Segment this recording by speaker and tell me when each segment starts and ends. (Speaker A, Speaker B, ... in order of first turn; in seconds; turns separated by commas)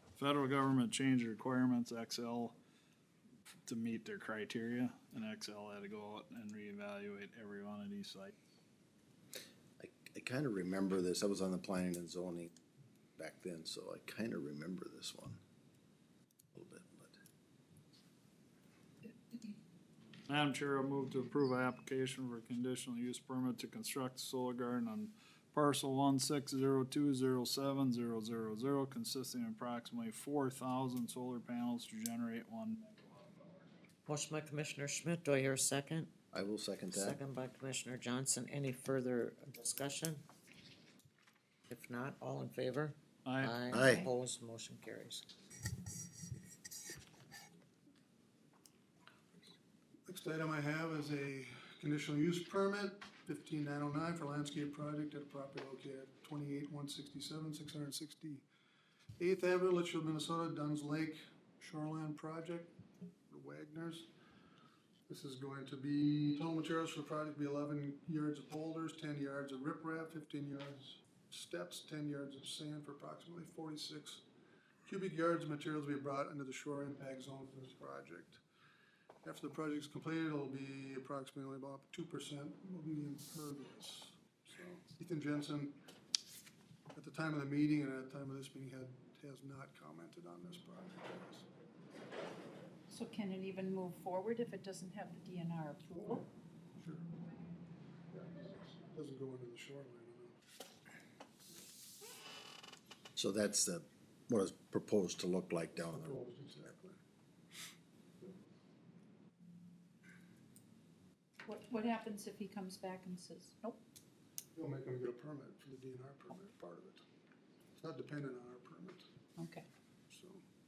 Speaker A: 0.2-2.5, Speaker A: 3.6-8.3, Speaker B: 9.8-12.5, Speaker B: 13.2-15.4, Speaker B: 16.5-17.1, Speaker A: 20.3-33.7, Speaker C: 34.0-36.1, Speaker B: 36.3-37.2, Speaker C: 36.9-40.2, Speaker C: 41.7-45.2, Speaker A: 43.2-43.6, Speaker B: 43.7-44.1, Speaker D: 50.1-58.4, Speaker D: 59.2-62.7, Speaker D: 63.3-64.1, Speaker D: 65.1-74.2, Speaker D: 74.9-78.4, Speaker D: 79.2-85.8, Speaker D: 86.9-91.5, Speaker E: 92.9-96.2, Speaker D: 95.9-97.0, Speaker D: 98.1-100.4, Speaker B: 103.2-106.2, Speaker D: 105.9-107.0, Speaker E: 111.4-113.8, Speaker D: 114.5-117.0, Speaker D: 117.8-119.0, Speaker E: 119.4-119.7, Speaker D: 120.1-120.4